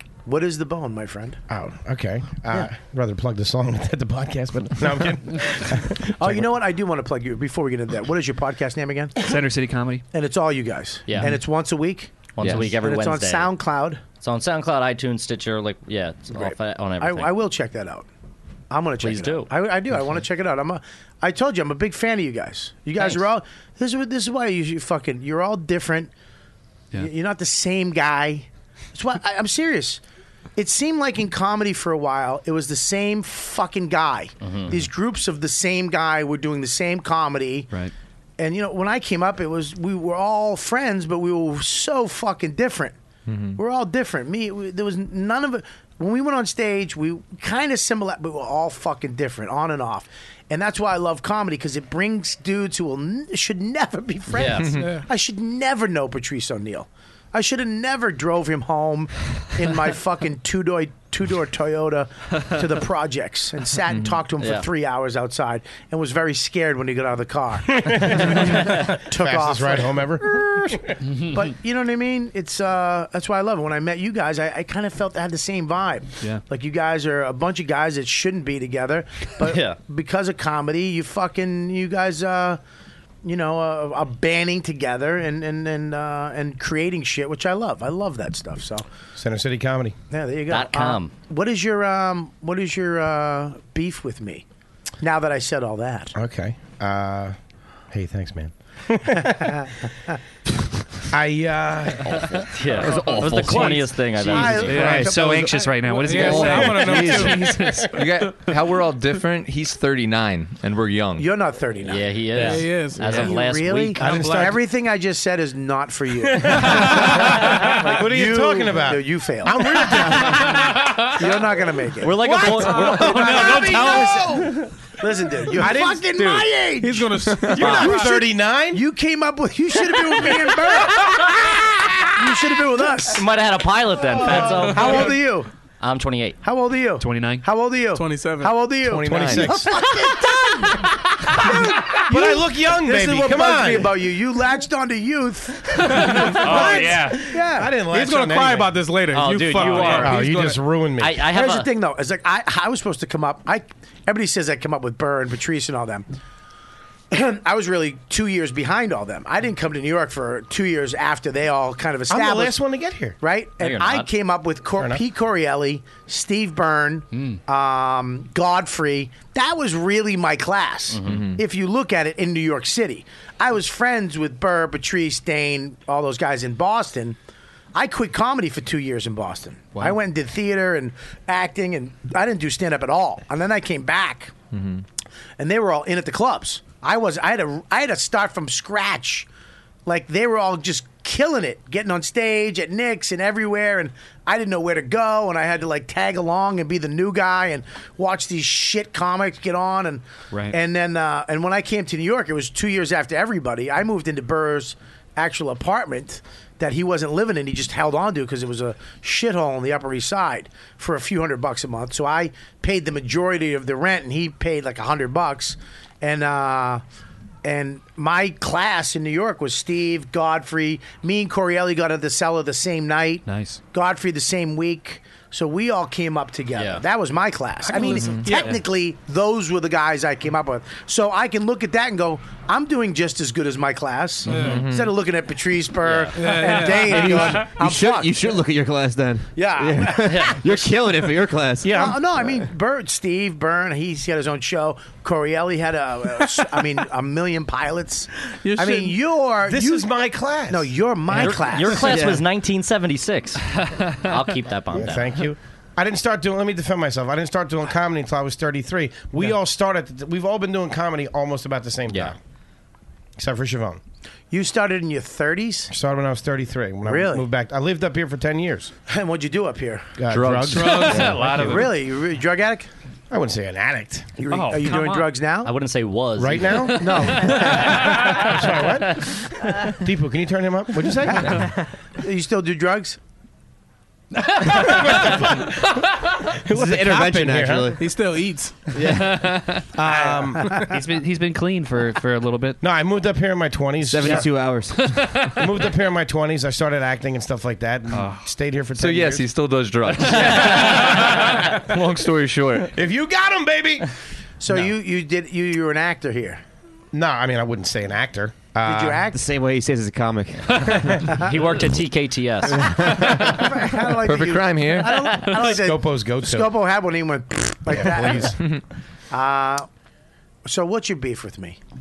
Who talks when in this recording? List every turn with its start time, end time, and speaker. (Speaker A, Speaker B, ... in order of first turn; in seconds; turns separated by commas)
Speaker A: 0.2-1.4, Speaker B: 1.5-6.5, Speaker A: 6.1-9.2, Speaker C: 9.2-10.0, Speaker A: 10.1-14.0, Speaker D: 11.1-11.3, Speaker D: 12.3-13.5, Speaker C: 12.4-12.7, Speaker D: 14.2-17.3, Speaker A: 16.3-18.1, Speaker A: 18.7-26.1, Speaker D: 19.0-19.5, Speaker A: 26.9-30.0, Speaker A: 30.6-37.7, Speaker D: 34.4-34.7, Speaker A: 38.4-43.0, Speaker A: 43.5-70.0, Speaker D: 54.3-54.9, Speaker E: 54.8-55.0, Speaker D: 64.4-64.7, Speaker B: 67.7-71.0, Speaker A: 71.2-82.6, Speaker D: 79.4-79.8, Speaker A: 83.2-88.8, Speaker B: 89.2-90.0, Speaker A: 90.1-94.4, Speaker D: 90.5-91.1, Speaker A: 95.0-96.2, Speaker B: 96.2-97.3, Speaker B: 97.9-99.7, Speaker A: 99.6-100.1, Speaker B: 101.1-102.4, Speaker D: 102.5-104.9, Speaker C: 102.8-107.9, Speaker A: 103.2-106.4, Speaker F: 104.7-105.5, Speaker B: 104.7-105.5, Speaker E: 106.0-107.6, Speaker F: 106.1-107.4, Speaker B: 106.3-107.9, Speaker G: 107.9-111.3, Speaker A: 111.2-133.2, Speaker D: 111.8-114.1, Speaker E: 112.3-113.3, Speaker E: 113.9-114.6, Speaker B: 114.0-114.5, Speaker B: 116.3-121.0, Speaker D: 122.0-124.2, Speaker B: 122.2-124.7, Speaker B: 125.5-126.4, Speaker E: 126.8-128.1, Speaker B: 127.5-128.8, Speaker D: 127.6-128.0, Speaker D: 133.1-135.2, Speaker A: 134.2-135.5, Speaker D: 135.8-136.4, Speaker A: 136.4-147.7, Speaker C: 137.0-137.4, Speaker E: 137.9-138.6, Speaker B: 138.8-139.7, Speaker B: 141.5-143.9, Speaker E: 145.8-147.2, Speaker B: 146.4-148.8, Speaker D: 146.7-146.9, Speaker E: 147.8-150.6, Speaker D: 149.1-151.7, Speaker A: 149.6-150.0, Speaker B: 149.6-151.2, Speaker A: 151.3-156.1, Speaker A: 157.1-162.6, Speaker B: 162.1-163.2, Speaker A: 163.2-177.2, Speaker D: 163.6-164.1, Speaker D: 170.9-171.2, Speaker A: 177.7-184.3, Speaker A: 185.4-189.3, Speaker A: 189.8-216.8, Speaker C: 200.3-200.6, Speaker A: 217.4-238.1, Speaker C: 223.2-223.6, Speaker D: 226.5-226.8, Speaker E: 227.7-228.5, Speaker C: 227.8-228.5, Speaker E: 234.3-234.6, Speaker G: 234.3-234.7, Speaker D: 235.8-236.5, Speaker E: 236.1-237.4, Speaker F: 236.7-242.3, Speaker A: 239.3-240.6, Speaker D: 240.1-240.4, Speaker A: 241.7-249.9, Speaker E: 248.4-249.0, Speaker B: 249.4-250.7, Speaker A: 250.5-252.0, Speaker D: 251.1-253.4, Speaker F: 251.8-252.2, Speaker D: 254.0-255.1, Speaker B: 254.7-262.2, Speaker D: 261.9-262.1, Speaker B: 263.2-263.8, Speaker A: 264.3-265.7, Speaker B: 265.7-268.7, Speaker A: 266.8-267.3, Speaker A: 268.9-270.0, Speaker B: 270.0-271.4, Speaker G: 270.2-271.2, Speaker C: 270.4-271.7, Speaker A: 270.7-272.7, Speaker B: 273.1-274.1, Speaker A: 274.2-275.5, Speaker C: 274.3-275.1, Speaker D: 275.4-276.8, Speaker B: 276.2-281.5, Speaker A: 276.7-278.2, Speaker C: 277.0-277.5, Speaker A: 282.0-283.0, Speaker B: 284.4-287.8, Speaker F: 286.5-287.8, Speaker E: 287.8-288.7, Speaker F: 288.7-289.3, Speaker C: 288.8-289.6, Speaker B: 289.8-290.6, Speaker A: 289.8-290.7, Speaker C: 290.6-292.6, Speaker B: 292.6-294.3, Speaker F: 293.8-295.1, Speaker B: 295.3-299.2, Speaker C: 297.9-298.3, Speaker G: 298.8-302.7, Speaker B: 300.0-301.3, Speaker B: 302.7-303.9, Speaker A: 304.4-306.4, Speaker B: 306.9-309.1, Speaker A: 308.6-309.2, Speaker F: 309.1-311.2, Speaker D: 311.1-312.8, Speaker F: 312.6-313.1, Speaker A: 313.2-318.4, Speaker G: 314.0-315.2, Speaker B: 315.3-316.5, Speaker B: 317.7-318.3, Speaker A: 319.1-319.6, Speaker A: 320.4-321.6